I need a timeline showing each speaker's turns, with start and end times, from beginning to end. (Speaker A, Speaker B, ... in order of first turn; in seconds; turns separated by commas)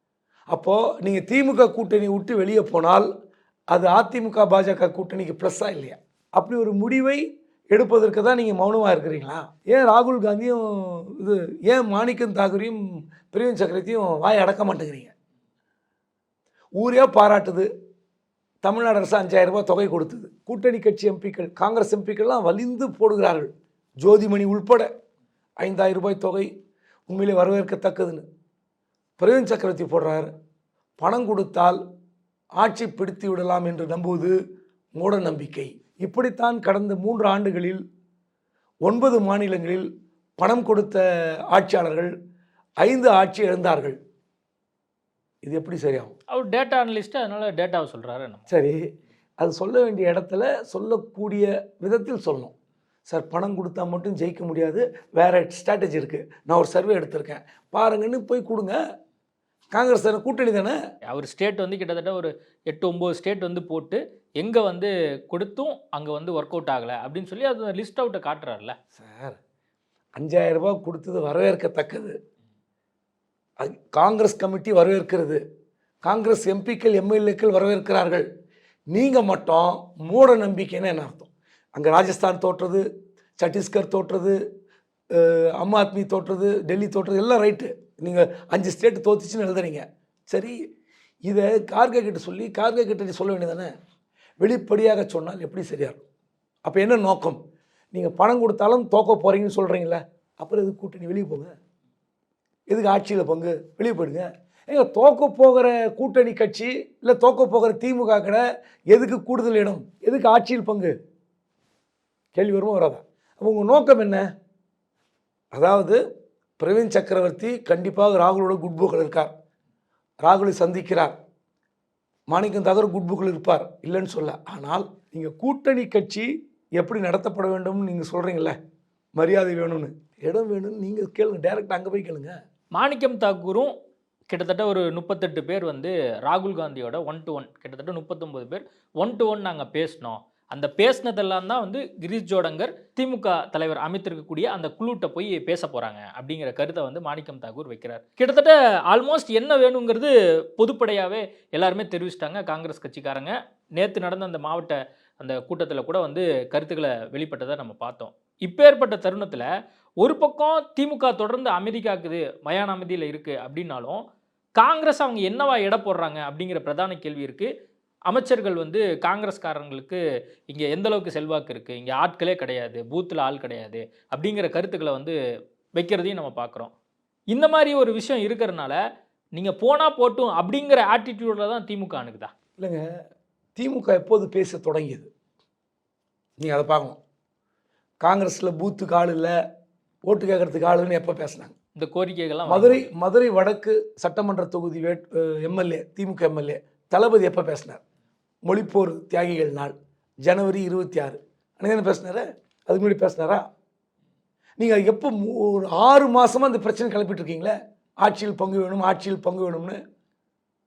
Speaker A: 0.5-3.1, Speaker A: 3.7-15.1, Speaker A: 16.8-17.7, Speaker A: 18.6-23.5, Speaker A: 24.0-24.9, Speaker A: 25.6-26.5, Speaker A: 27.1-28.2, Speaker A: 29.2-30.3, Speaker A: 31.0-31.8, Speaker A: 32.6-34.4, Speaker A: 35.0-37.8, Speaker A: 38.9-39.9, Speaker A: 40.4-42.1, Speaker A: 42.8-44.0, Speaker A: 45.4-46.1, Speaker B: 46.3-48.5, Speaker A: 48.5-48.8, Speaker A: 49.4-52.5, Speaker A: 53.1-58.8, Speaker A: 59.7-60.8, Speaker B: 61.1-68.8, Speaker A: 69.0-69.4, Speaker A: 70.2-72.2, Speaker A: 73.6-75.4, Speaker A: 76.0-78.3, Speaker A: 78.9-82.8, Speaker A: 83.4-84.4, Speaker A: 85.2-90.5, Speaker A: 91.3-93.7, Speaker A: 94.4-96.0, Speaker A: 96.7-97.4, Speaker A: 97.9-101.5, Speaker A: 102.7-111.0, Speaker A: 112.3-114.3, Speaker A: 115.5-116.0, Speaker A: 116.6-119.3, Speaker A: 120.2-121.1, Speaker A: 122.3-128.6, Speaker A: 129.2-132.3, Speaker B: 132.8-133.7, Speaker B: 134.3-159.4, Speaker B: 160.0-164.0, Speaker B: 164.6-167.5, Speaker B: 168.1-175.2, Speaker B: 175.8-176.7, Speaker B: 177.3-178.8, Speaker B: 179.3-182.3, Speaker A: 182.6-182.9, Speaker A: 183.6-185.1, Speaker A: 186.4-187.0, Speaker A: 188.0-189.3, Speaker A: 190.1-191.5, Speaker B: 191.8-192.9, Speaker A: 192.5-197.8, Speaker A: 198.5-203.4, Speaker A: 204.6-209.8